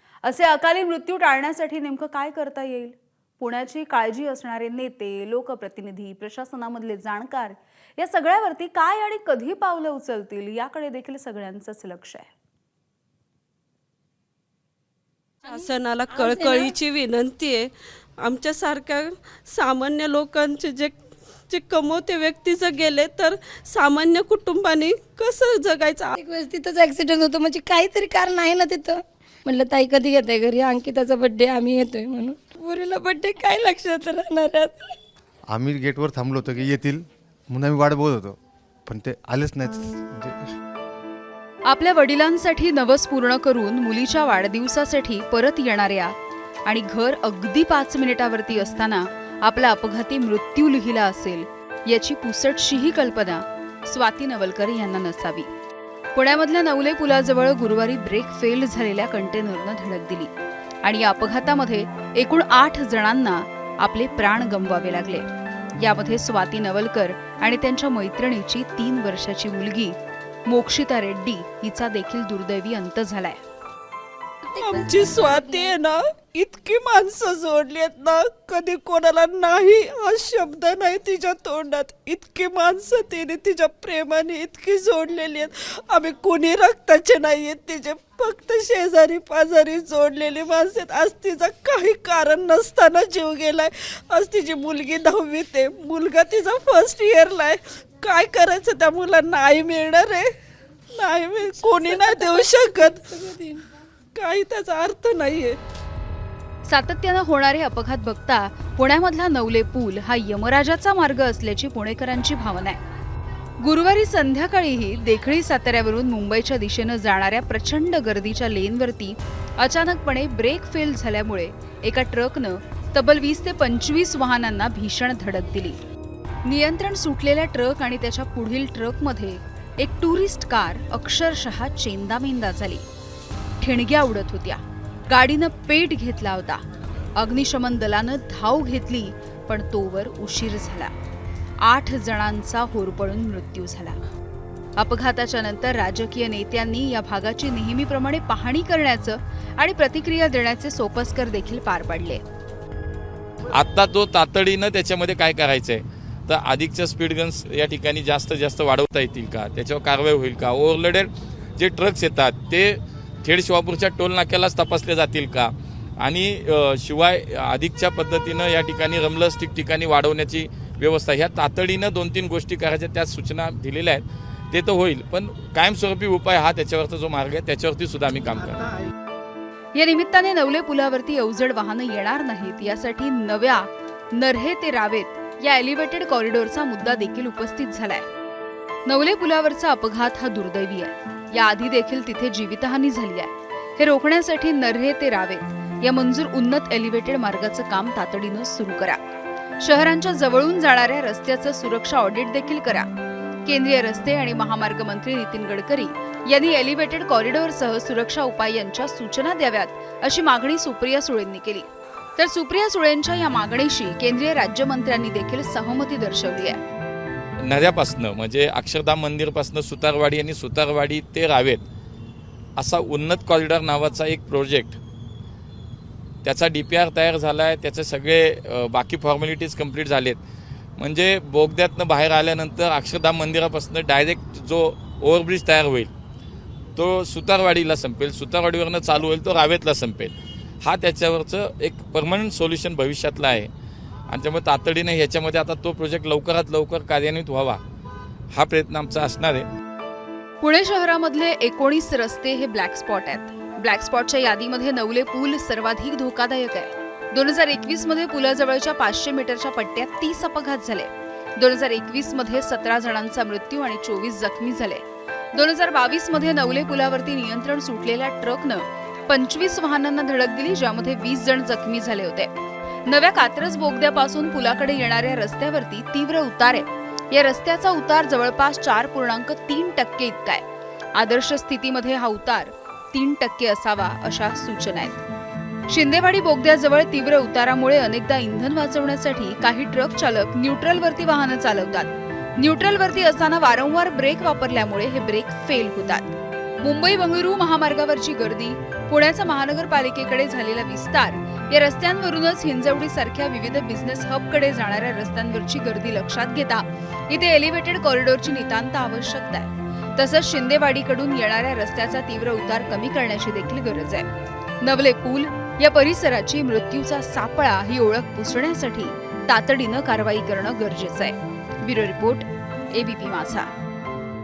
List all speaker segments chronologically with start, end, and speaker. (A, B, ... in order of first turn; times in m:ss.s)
0:00.2-0:12.3 A
0:15.5-0:26.1 B
0:16.2-0:16.6 C
0:26.2-0:35.0 C
0:35.5-0:38.4 D
0:38.9-0:40.4 D
0:41.7-0:46.1 A
0:46.7-0:55.5 A
0:56.2-1:00.3 A
1:00.8-1:05.2 A
1:05.8-1:10.0 A
1:10.5-1:13.4 A
1:14.4-1:40.3 B
1:14.6-1:15.6 C
1:40.9-1:43.4 B
1:42.0-1:43.5 C
1:44.2-1:45.6 B
1:46.7-1:52.8 A
1:53.6-2:05.8 A
2:06.4-2:12.8 A
2:13.6-2:16.6 A
2:17.2-2:20.9 A
2:21.6-2:24.0 A
2:24.8-2:32.2 A
2:33.5-2:58.7 E
2:59.8-3:08.1 A
3:08.9-3:19.0 A
3:19.6-3:22.9 A
3:23.5-3:36.6 A
3:37.4-3:41.6 E
3:42.6-3:44.8 E
3:46.2-3:50.2 E
3:50.8-3:55.9 E
3:56.8-4:03.5 E
4:04.1-4:07.6 E
4:08.3-4:09.5 E
4:10.4-4:24.8 A
4:25.3-4:32.3 A
4:32.9-4:40.4 A
4:41.0-4:45.0 A
4:45.7-5:14.1 A
5:14.6-5:23.5 A